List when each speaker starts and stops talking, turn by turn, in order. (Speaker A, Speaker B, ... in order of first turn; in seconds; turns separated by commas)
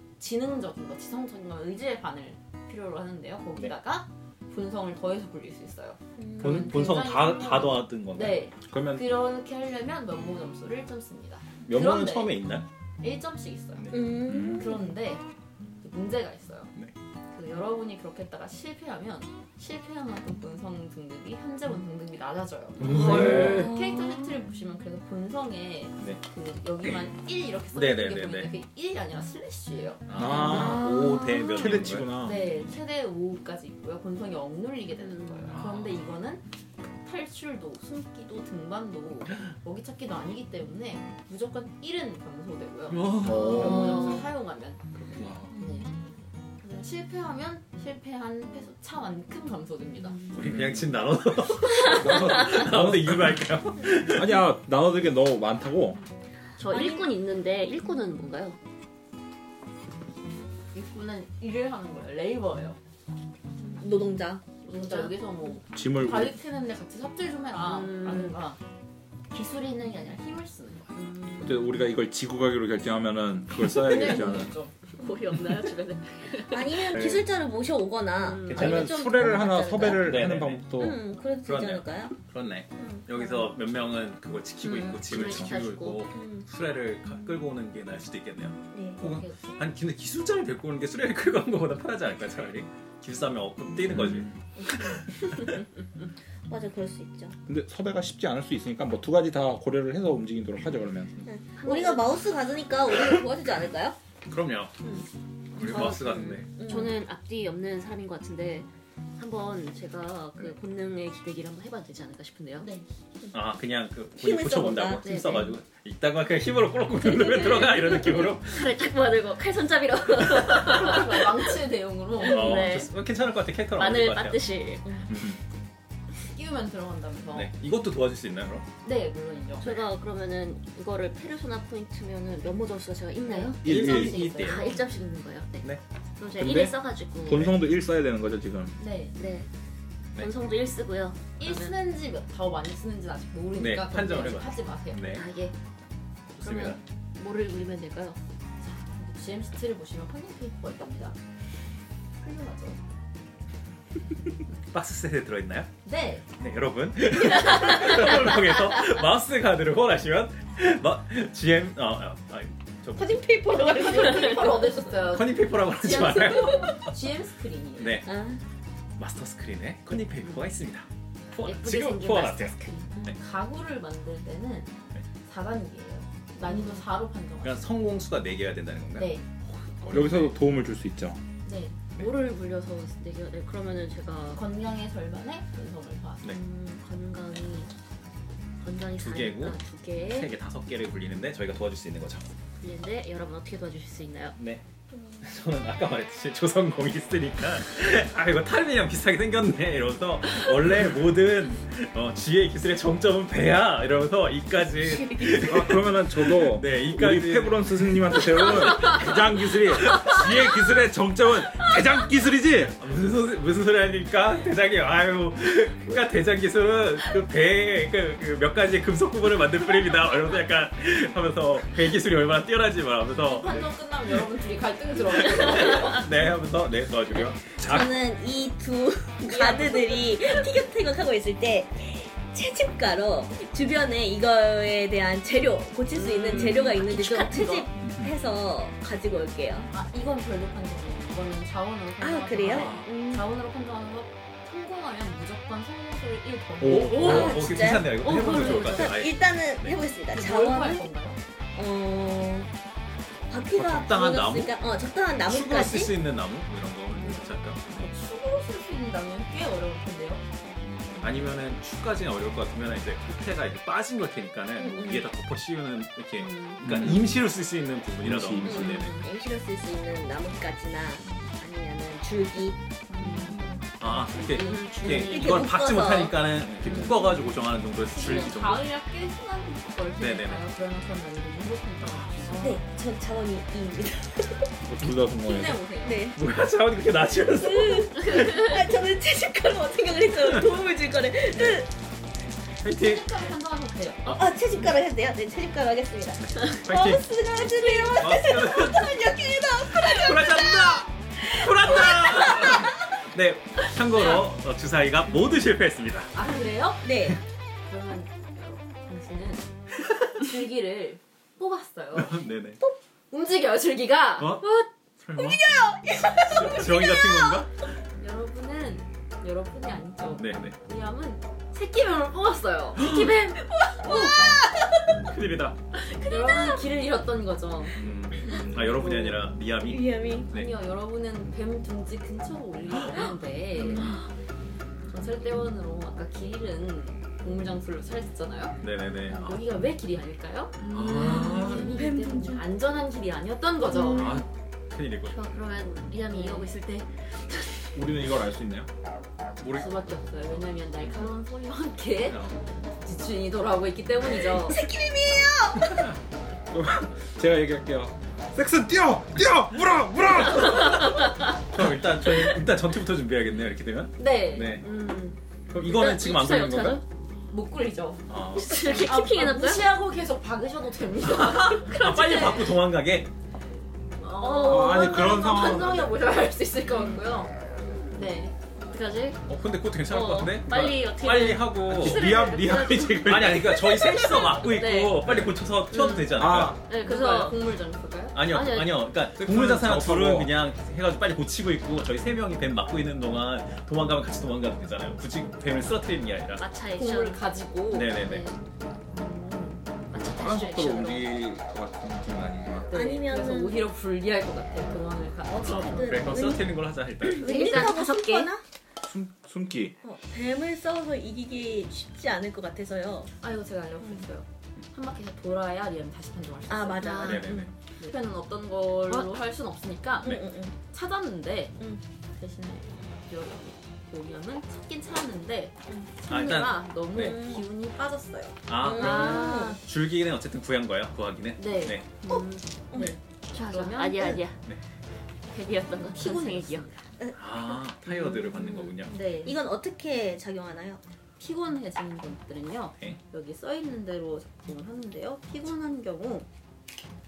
Speaker A: 0.2-12.4, Speaker B: 6.2-6.7, Speaker C: 6.4-8.4, Speaker D: 8.7-9.1, Speaker C: 11.6-12.7, Speaker A: 13.0-15.2, Speaker B: 13.9-14.8, Speaker D: 14.3-14.7, Speaker A: 15.8-16.7, Speaker A: 17.3-30.7, Speaker C: 22.8-23.7, Speaker B: 22.9-23.8, Speaker C: 27.7-28.5, Speaker C: 30.1-32.2, Speaker D: 30.1-32.4, Speaker A: 32.2-36.4, Speaker C: 35.5-36.0, Speaker A: 37.0-50.2, Speaker C: 42.9-43.9, Speaker D: 43.2-43.8, Speaker E: 43.5-44.0, Speaker C: 50.3-54.4, Speaker D: 51.8-53.4, Speaker D: 54.0-56.0, Speaker E: 56.6-58.6, Speaker B: 56.7-57.0, Speaker A: 60.7-62.8, Speaker B: 63.7-64.4, Speaker A: 64.6-68.6, Speaker D: 65.7-66.3, Speaker E: 67.8-68.3, Speaker A: 69.3-70.9, Speaker E: 71.0-71.5, Speaker D: 71.4-74.5, Speaker A: 73.8-74.7, Speaker E: 74.0-74.3, Speaker E: 75.0-76.8, Speaker B: 76.4-80.2, Speaker C: 76.9-77.2, Speaker E: 78.2-78.9, Speaker C: 78.5-78.9, Speaker D: 78.5-81.0, Speaker C: 79.9-80.6, Speaker B: 80.8-82.1, Speaker C: 81.4-95.5, Speaker E: 84.6-86.3, Speaker D: 85.1-85.5, Speaker B: 88.7-89.0, Speaker A: 89.0-89.4, Speaker D: 93.9-94.3, Speaker B: 96.5-97.3, Speaker D: 97.5-101.2, Speaker B: 101.3-104.0, Speaker E: 101.5-102.1, Speaker C: 104.2-104.7, Speaker C: 105.6-106.5, Speaker E: 105.6-112.7, Speaker B: 105.6-107.0, Speaker C: 113.3-118.7, Speaker B: 114.2-115.4, Speaker E: 115.0-115.5, Speaker E: 117.1-121.4, Speaker A: 120.3-122.7, Speaker E: 122.2-122.9, Speaker C: 122.2-124.4, Speaker E: 123.8-125.1, Speaker A: 126.2-127.5, Speaker C: 127.3-128.7, Speaker A: 128.8-129.8, Speaker E: 129.6-137.5, Speaker A: 133.2-134.8, Speaker D: 133.6-134.3, Speaker C: 133.6-134.7, Speaker D: 136.4-138.8, Speaker A: 138.8-139.1, Speaker E: 139.1-139.5, Speaker E: 140.1-141.7, Speaker A: 141.4-145.0, Speaker C: 143.6-145.2, Speaker E: 145.1-145.5, Speaker C: 146.3-146.8, Speaker E: 146.4-148.2, Speaker A: 148.6-151.2, Speaker A: 152.2-152.8, Speaker C: 154.7-155.7, Speaker A: 155.8-156.2, Speaker C: 156.4-163.2, Speaker B: 162.9-164.7, Speaker A: 163.5-168.1, Speaker C: 165.0-166.8, Speaker C: 167.8-168.1, Speaker B: 168.0-168.4, Speaker C: 169.0-173.2, Speaker E: 171.4-173.1, Speaker A: 173.0-174.7, Speaker A: 175.2-177.7, Speaker E: 176.5-176.8, Speaker C: 177.4-180.3, Speaker A: 178.9-179.2, Speaker D: 179.9-181.2, Speaker A: 181.4-181.8, Speaker E: 182.0-184.4, Speaker A: 184.3-186.3, Speaker E: 186.2-187.7, Speaker E: 188.6-190.3, Speaker C: 189.0-192.3, Speaker E: 192.6-194.4, Speaker C: 194.4-194.6, Speaker C: 195.2-209.0, Speaker B: 204.8-205.7, Speaker D: 205.4-212.8, Speaker C: 212.8-223.7, Speaker A: 223.2-226.1, Speaker C: 225.2-227.9, Speaker B: 227.5-239.7, Speaker A: 229.3-230.2, Speaker E: 236.0-237.6, Speaker C: 236.3-236.6, Speaker A: 239.7-247.4, Speaker B: 242.0-243.3, Speaker C: 242.4-242.9, Speaker D: 246.6-247.3, Speaker B: 246.6-250.8, Speaker C: 246.7-249.8, Speaker A: 248.1-248.9, Speaker A: 250.1-251.2, Speaker B: 251.5-252.5, Speaker B: 253.3-255.9, Speaker C: 253.5-254.6, Speaker C: 255.2-257.6, Speaker A: 257.7-260.2, Speaker C: 260.4-269.0, Speaker B: 264.6-265.0, Speaker E: 266.3-266.6, Speaker D: 266.6-267.0, Speaker D: 268.0-268.6, Speaker B: 268.4-272.6, Speaker A: 272.9-275.4, Speaker C: 273.3-278.6, Speaker E: 274.4-274.9, Speaker B: 274.8-276.8, Speaker A: 277.9-282.6, Speaker C: 280.0-280.4, Speaker B: 282.4-284.5, Speaker D: 284.6-285.6, Speaker A: 285.2-286.0, Speaker B: 285.8-286.2, Speaker C: 286.1-288.1, Speaker B: 287.3-291.7, Speaker C: 292.6-293.0, Speaker A: 292.6-294.2, Speaker C: 294.1-294.7, Speaker B: 294.1-302.7, Speaker C: 296.4-297.1, Speaker C: 297.7-299.0, Speaker C: 299.6-306.1, Speaker A: 306.1-307.1, Speaker B: 306.8-307.2, Speaker A: 307.7-309.5, Speaker A: 310.1-312.1, Speaker C: 311.9-312.6, Speaker A: 313.1-314.4, Speaker C: 314.2-314.4, Speaker B: 314.4-317.4, Speaker C: 315.0-315.4, Speaker C: 316.1-317.5, Speaker A: 318.0-322.8, Speaker C: 320.2-320.6, Speaker C: 322.8-323.2, Speaker E: 322.8-323.4, Speaker B: 323.3-325.0, Speaker C: 325.1-325.6, Speaker B: 325.8-326.5, Speaker A: 326.1-329.3, Speaker C: 327.8-330.5, Speaker B: 329.6-330.3, Speaker A: 330.3-334.0, Speaker C: 333.6-334.0, Speaker A: 334.9-338.6, Speaker C: 338.6-339.4, Speaker A: 339.1-344.2, Speaker C: 340.7-341.8, Speaker B: 340.8-342.4, Speaker E: 340.9-341.7, Speaker C: 343.9-345.2, Speaker E: 345.1-347.7, Speaker A: 346.1-346.5, Speaker D: 347.7-348.7, Speaker C: 349.4-349.8, Speaker A: 349.5-354.7, Speaker C: 352.1-352.4, Speaker B: 354.1-355.9, Speaker D: 356.5-360.9, Speaker E: 360.5-361.2, Speaker C: 361.5-364.6, Speaker A: 364.0-364.6, Speaker E: 364.6-366.8, Speaker C: 365.5-366.8, Speaker A: 367.3-368.0, Speaker C: 368.1-368.8, Speaker E: 368.4-369.7, Speaker A: 368.6-372.5, Speaker C: 371.1-373.1, Speaker A: 374.0-377.3, Speaker E: 374.2-375.1, Speaker D: 374.4-376.0, Speaker A: 377.9-378.3, Speaker E: 378.7-379.2, Speaker C: 379.3-382.1, Speaker E: 379.9-385.1, Speaker D: 381.7-383.8, Speaker C: 383.0-386.6, Speaker D: 385.1-385.3, Speaker E: 385.7-387.4, Speaker D: 386.1-386.6, Speaker A: 386.7-388.2, Speaker C: 388.1-396.4, Speaker E: 388.2-388.8, Speaker D: 389.2-390.3, Speaker E: 396.4-397.2, Speaker A: 396.7-398.1, Speaker C: 397.7-398.2, Speaker E: 398.0-398.3, Speaker A: 398.9-399.6, Speaker E: 399.9-401.1, Speaker D: 400.0-402.7, Speaker A: 402.7-406.4, Speaker B: 402.7-403.7, Speaker B: 405.3-408.4, Speaker C: 405.4-407.5, Speaker E: 407.2-408.3, Speaker A: 407.2-408.2, Speaker D: 408.8-409.8, Speaker B: 409.8-413.1, Speaker A: 413.2-421.6, Speaker B: 416.5-417.5, Speaker E: 416.9-417.2, Speaker C: 417.0-417.5, Speaker B: 420.0-420.5, Speaker A: 422.1-429.5, Speaker C: 426.1-427.2, Speaker B: 426.9-427.4, Speaker C: 428.5-431.9, Speaker B: 428.5-429.6, Speaker E: 428.8-429.6, Speaker A: 431.4-431.8, Speaker E: 432.0-432.4, Speaker B: 432.1-432.9, Speaker A: 432.7-434.2, Speaker E: 433.3-434.4, Speaker E: 435.3-436.8, Speaker A: 435.9-436.8, Speaker B: 437.0-437.5, Speaker C: 437.1-438.9, Speaker E: 438.3-438.7, Speaker A: 438.9-439.3, Speaker B: 439.2-440.8, Speaker A: 441.2-446.3